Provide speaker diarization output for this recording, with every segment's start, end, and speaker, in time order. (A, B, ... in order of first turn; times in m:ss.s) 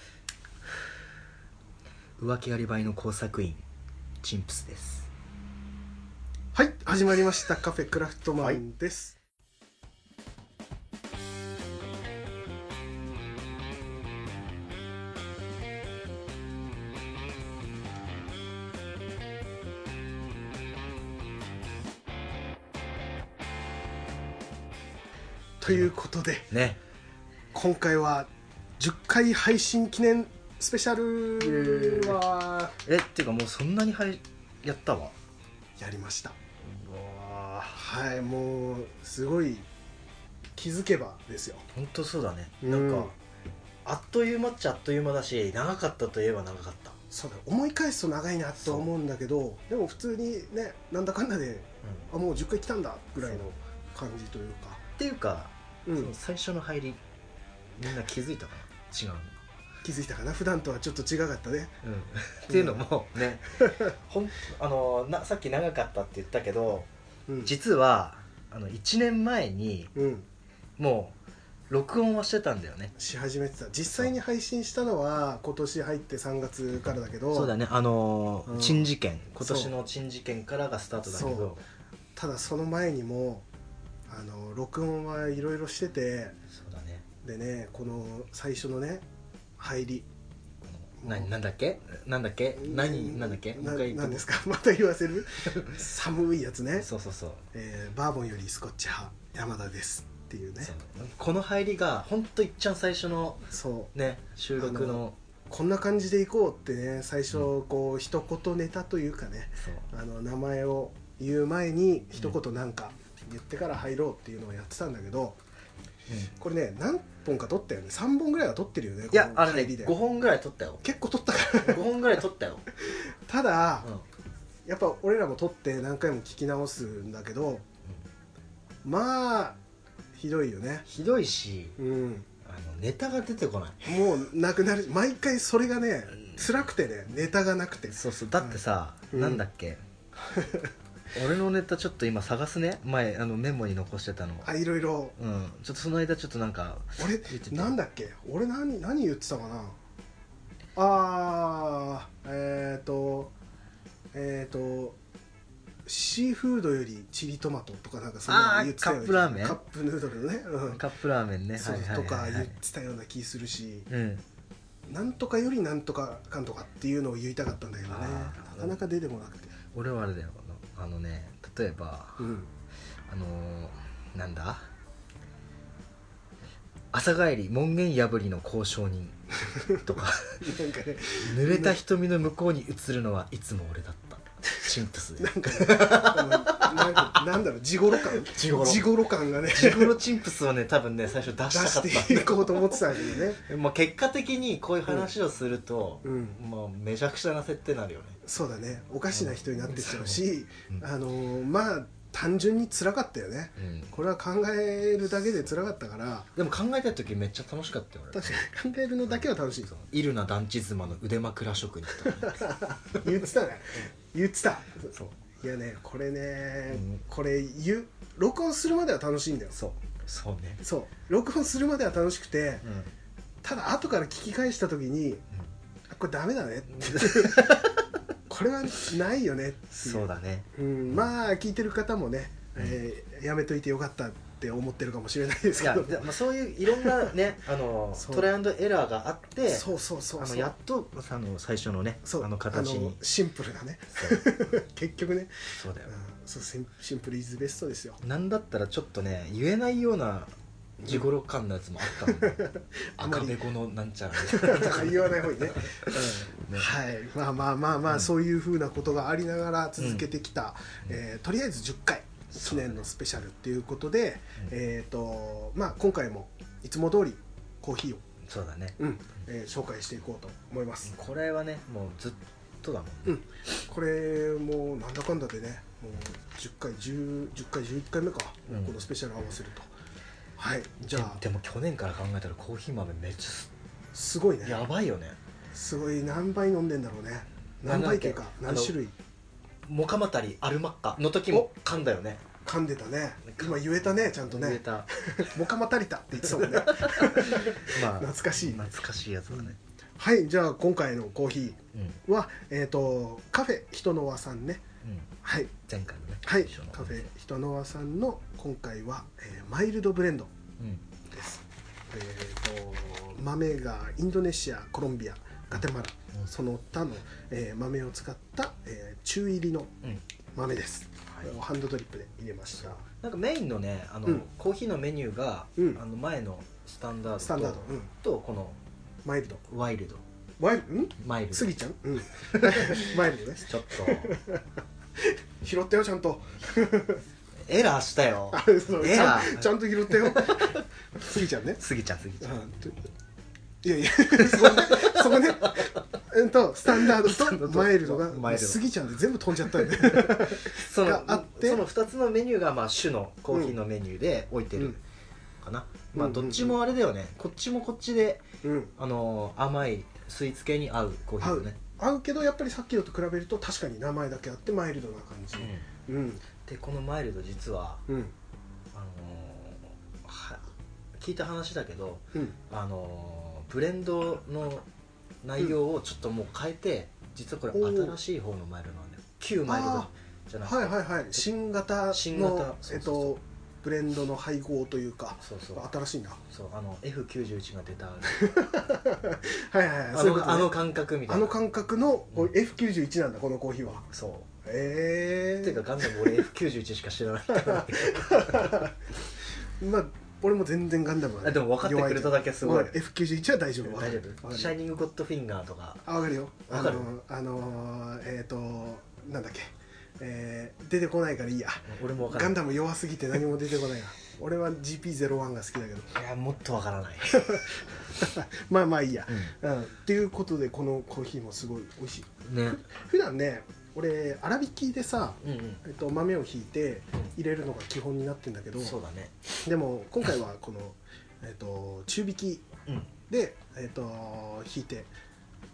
0:02.2-0:03.6 A
0:04.2-0:05.1 A
0:06.5-0:09.2 B
0:25.6-0:26.5 B
0:26.5-0:26.8 A
0:27.5-0:32.8 B
0:31.4-0:32.2 A
0:32.8-0:35.2 A
0:35.8-0:36.4 B
0:36.7-0:37.2 A
0:37.0-0:39.6 B
0:40.6-0:41.7 B
0:41.7-0:43.1 A
0:42.6-0:43.1 B
0:43.8-0:47.0 A
0:47.1-0:54.8 B
0:55.0-0:57.0 A
0:55.8-0:56.1 B
0:57.8-0:59.4 A
0:59.8-1:01.8 B
1:01.8-1:06.9 A
1:02.5-1:02.9 B
1:03.6-1:03.9 B
1:07.3-1:07.5 B
1:07.4-1:09.9 A
1:09.9-1:10.3 B
1:10.8-1:11.2 A
1:11.7-1:12.9 A
1:13.0-1:17.5 B
1:17.3-1:21.6 A
1:18.5-1:19.7 B
1:21.0-1:21.6 B
1:22.2-1:23.4 B
1:24.1-1:26.4 B
1:26.5-1:27.0 A
1:27.2-1:29.0 B
1:29.6-1:30.1 B
1:30.6-1:34.2 A
1:31.0-1:31.3 B
1:32.6-1:36.9 B
1:36.8-1:37.4 A
1:37.5-1:40.7 B
1:40.6-1:45.2 A
1:43.5-1:43.9 B
1:44.6-1:55.4 B
1:56.3-1:59.9 B
1:59.1-2:00.8 A
2:00.8-2:01.9 B
2:01.6-2:02.6 A
2:02.8-2:03.9 B
2:04.6-2:07.6 B
2:08.8-2:09.6 B
2:10.1-2:10.8 B
2:10.8-2:11.8 A
2:11.8-2:12.3 B
2:12.4-2:13.9 A
2:13.8-2:18.6 B
2:17.9-2:19.8 A
2:19.1-2:19.4 B
2:20.3-2:20.7 B
2:21.1-2:24.5 A
2:24.4-2:25.2 B
2:25.2-2:27.8 A
2:27.0-2:29.8 B
2:30.8-2:33.3 B
2:34.1-2:35.0 B
2:35.8-2:40.8 B
2:38.2-2:39.6 A
2:40.7-2:42.6 A
2:41.6-2:43.9 B
2:43.9-2:44.2 A
2:44.9-2:49.5 B
2:47.9-2:48.8 A
2:49.7-2:52.4 A
2:52.2-2:52.5 B
2:53.1-2:54.7 A
2:56.9-3:00.5 A
3:00.4-3:01.8 B
3:01.2-3:07.3 A
3:05.2-3:10.0 B
3:08.0-3:08.9 A
3:09.5-3:18.2 A
3:11.5-3:13.4 B
3:16.0-3:16.4 B
3:18.2-3:26.3 B
3:19.1-3:20.8 A
3:23.6-3:23.9 A
3:26.4-3:28.4 A
3:28.1-3:29.7 B
3:29.1-3:32.4 A
3:32.1-3:39.6 B
3:36.7-3:37.0 A
3:39.5-3:40.6 A
3:40.6-3:42.6 B
3:42.6-3:42.9 A
3:43.4-3:45.2 B
3:45.9-3:47.7 B
3:46.8-3:47.8 A
3:48.3-3:50.0 B
3:49.7-3:51.1 A
3:50.5-3:56.1 B
3:55.6-3:59.6 A
3:56.7-3:57.1 B
3:58.0-3:58.3 B
3:59.4-4:00.5 B
4:00.2-4:03.0 A
4:02.0-4:08.0 B
4:04.0-4:04.2 A
4:05.5-4:05.9 A
4:08.0-4:10.3 A
4:10.8-4:11.1 B
4:10.8-4:12.4 A
4:11.8-4:13.4 B
4:13.0-4:16.7 A
4:14.2-4:28.0 B
4:19.8-4:20.1 A
4:22.3-4:22.8 A
4:28.2-4:28.8 A
4:28.8-4:30.9 B
4:30.9-4:33.2 A
4:33.0-4:39.7 B
4:38.5-4:38.8 A
4:40.4-4:41.2 B
4:40.9-4:43.5 A
4:43.9-4:44.7 B
4:44.4-4:45.2 A
4:45.5-4:48.9 B
4:47.6-4:48.8 A
4:49.6-4:52.2 A
4:52.4-4:58.7 B
4:53.3-4:54.9 A
4:56.3-4:59.6 A
5:00.0-5:04.6 B
5:04.8-5:05.1 A
5:05.2-5:05.5 B
5:05.7-5:07.0 A
5:06.2-5:10.3 B
5:10.6-5:10.8 A
5:11.1-5:19.7 B
5:20.3-5:22.8 B
5:22.6-5:28.6 A
5:27.2-5:27.9 B
5:29.0-5:29.4 B
5:29.4-5:30.0 A
5:30.4-5:34.4 B
5:31.0-5:31.5 A
5:32.1-5:34.2 A
5:35.0-5:37.0 B
5:37.5-5:40.6 A
5:38.3-5:41.6 B
5:41.6-5:42.6 A
5:42.2-5:42.8 B
5:43.6-5:51.6 B
5:44.2-5:45.8 A
5:46.7-5:48.6 A
5:49.4-5:54.8 A
5:55.4-5:58.2 A
5:55.9-5:56.6 B
5:58.4-5:58.7 B
5:58.8-6:01.6 A
6:01.2-6:06.2 B
6:05.4-6:05.6 A
6:06.4-6:07.8 A
6:07.9-6:08.1 B
6:08.7-6:10.4 A
6:11.0-6:14.6 A
6:15.2-6:21.3 A
6:17.5-6:18.0 B
6:19.4-6:19.9 B
6:20.4-6:26.2 B
6:21.9-6:23.1 A
6:25.2-6:25.6 A
6:26.3-6:28.5 A
6:28.1-6:33.9 B
6:29.9-6:31.4 A
6:33.9-6:34.3 A
6:34.4-6:36.2 B
6:35.4-6:38.7 A
6:37.3-6:38.8 B
6:39.6-6:44.5 B
6:41.2-6:42.8 A
6:43.6-6:45.8 A
6:45.8-6:56.0 B
6:46.5-6:46.9 A
6:51.7-6:52.4 A
6:55.9-6:57.4 A
6:57.1-7:08.8 B
6:59.1-6:59.3 A
7:02.2-7:02.6 A
7:05.2-7:05.6 A
7:08.6-7:09.2 A
7:09.4-7:12.5 B
7:13.1-7:14.9 B